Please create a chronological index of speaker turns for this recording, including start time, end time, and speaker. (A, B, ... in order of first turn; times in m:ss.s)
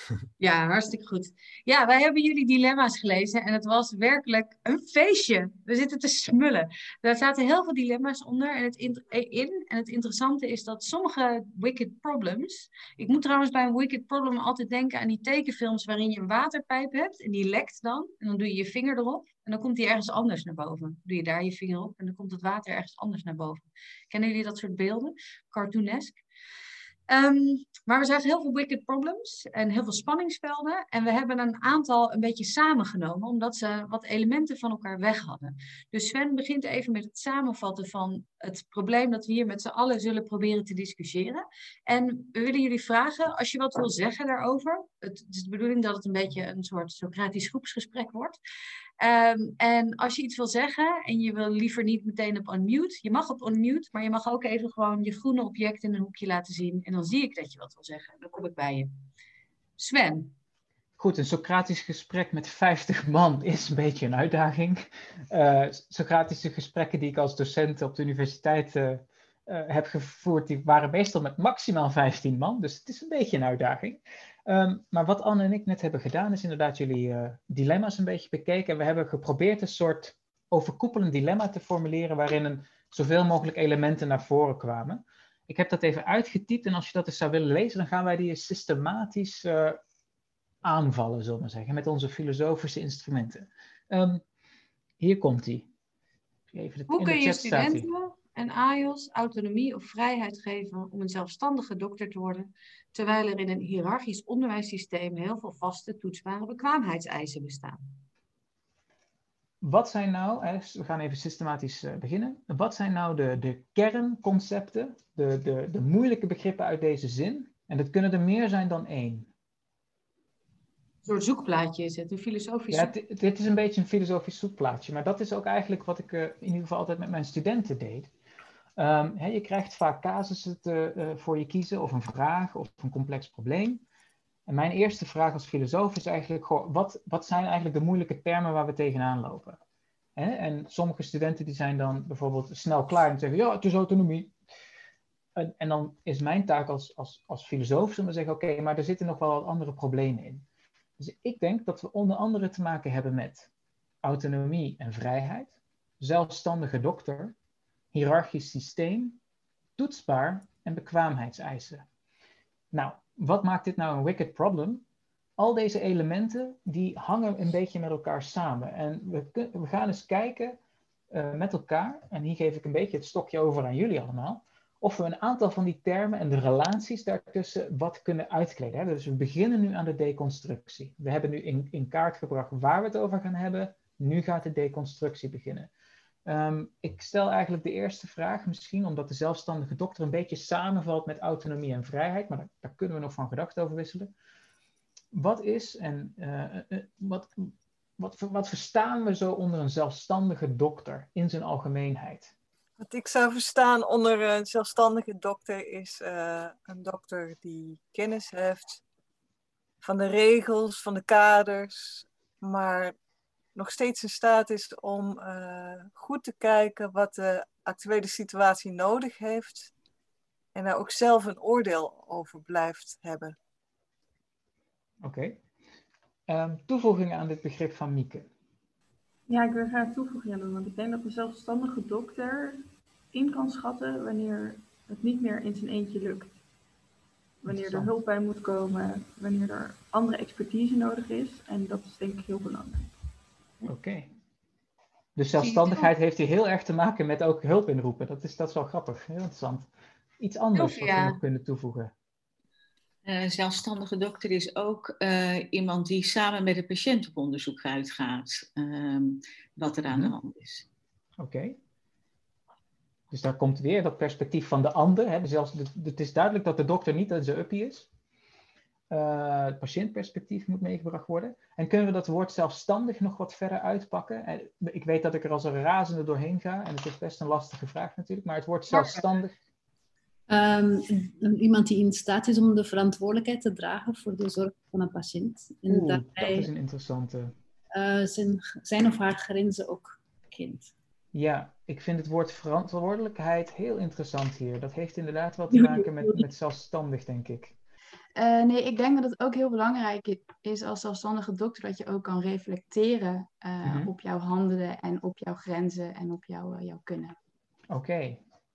0:00.4-0:26.2 A
0:27.1-0:48.4 A
0:49.0-0:58.9 A
0:59.8-1:00.3 A
1:01.0-1:29.8 B
1:30.6-1:34.2 B
1:35.0-1:35.7 B
1:36.5-1:37.9 B
1:36.9-1:47.8 A
1:49.6-1:59.3 B
2:01.0-2:02.9 A
2:02.7-2:08.1 B
2:08.8-2:13.8 B
2:14.4-2:19.6 B
2:20.2-2:24.3 B
2:25.4-2:30.4 B
2:31.0-2:33.5 B
2:34.0-2:37.3 B
2:37.9-2:39.2 B
2:39.8-2:41.9 B
2:42.7-2:44.8 B
2:45.4-2:50.6 B
2:51.1-3:05.7 B
3:06.3-3:14.1 B
3:15.1-3:22.3 B
3:22.8-3:28.8 C
3:29.8-3:33.0 C
3:33.6-3:39.7 C
3:40.6-3:43.4 C
3:45.0-3:45.4 B
3:46.3-3:48.3 B
3:49.3-3:52.6 D
3:53.1-3:56.4 D
3:57.4-4:02.9 D
3:57.5-3:57.9 B
4:03.7-4:04.1 B
4:05.2-4:11.9 B
4:05.3-4:05.9 A
4:10.6-4:11.2 A
4:13.0-4:20.6 E
4:21.2-4:21.6 B
4:23.1-4:27.9 B
4:28.9-4:39.4 B
4:38.7-4:39.0 A
4:40.3-4:46.5 F
4:45.7-4:47.3 B
4:47.7-4:50.7 F
4:51.1-4:57.6 B
4:55.5-4:56.2 F
4:58.2-5:07.2 G
5:03.6-5:03.9 B
5:07.7-5:08.2 B